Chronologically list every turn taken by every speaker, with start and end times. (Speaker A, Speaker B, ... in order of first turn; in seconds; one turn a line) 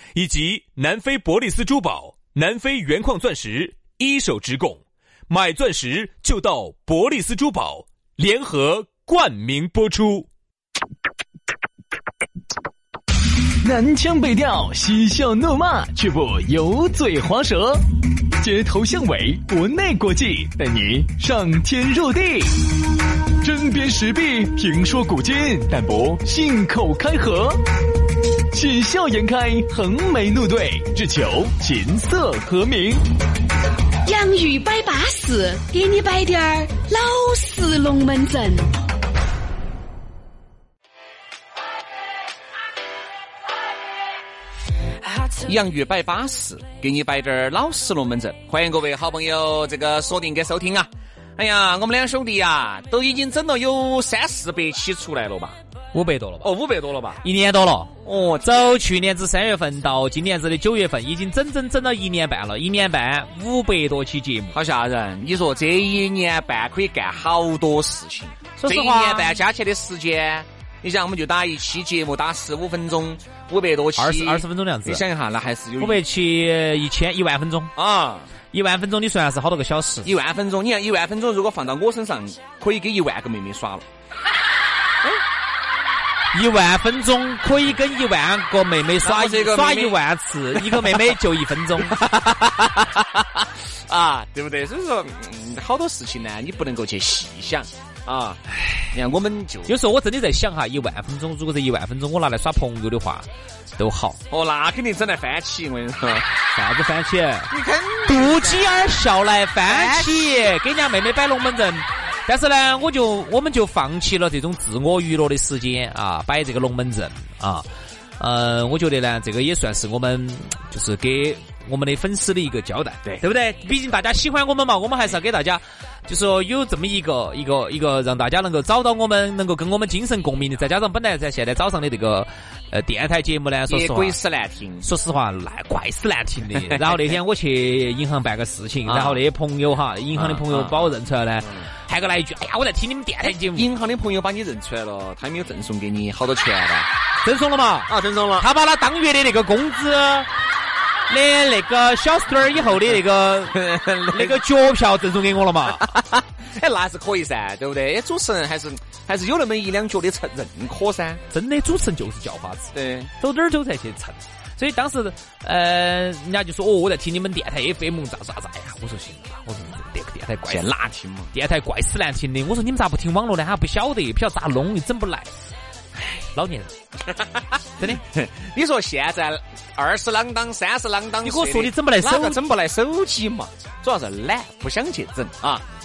Speaker A: 0.2-10.3
Speaker B: 13.6-17.8
Speaker B: 18.4-22.7
Speaker B: 23.4-27.6
Speaker B: 28.5-33.0
Speaker C: 34.1-38.7
Speaker D: 45.4-55.6
Speaker E: 55.9-56.5
Speaker D: 56.4-57.2
Speaker E: 57.2-64.6
Speaker D: 58.0-58.8
Speaker D: 64.5-76.0
Speaker E: 68.6-69.4
Speaker E: 74.0-75.0
Speaker E: 75.8-77.7
Speaker D: 77.8-78.3
Speaker E: 78.5-80.1
Speaker D: 80.0-83.8
Speaker E: 86.3-92.0
Speaker D: 89.0-90.0
Speaker D: 90.5-91.0
Speaker D: 91.8-98.4
Speaker D: 98.9-99.7
Speaker E: 99.7-104.2
Speaker D: 104.3-106.3
Speaker E: 106.5-107.5
Speaker D: 107.5-109.0
Speaker E: 108.1-117.7
Speaker D: 109.7-110.5
Speaker E: 118.2-134.2
Speaker D: 133.7-134.9
Speaker E: 134.8-143.7
Speaker D: 138.9-139.2
Speaker D: 140.2-141.0
Speaker D: 143.2-146.9
Speaker E: 147.2-150.3
Speaker D: 147.9-148.5
Speaker E: 151.1-155.9
Speaker D: 153.5-154.4
Speaker D: 155.8-161.2
Speaker E: 161.3-170.7
Speaker D: 162.7-163.1
Speaker D: 170.5-171.3
Speaker E: 171.3-175.3
Speaker E: 176.0-176.7
Speaker D: 177.1-177.6
Speaker D: 178.1-185.6
Speaker E: 181.2-182.4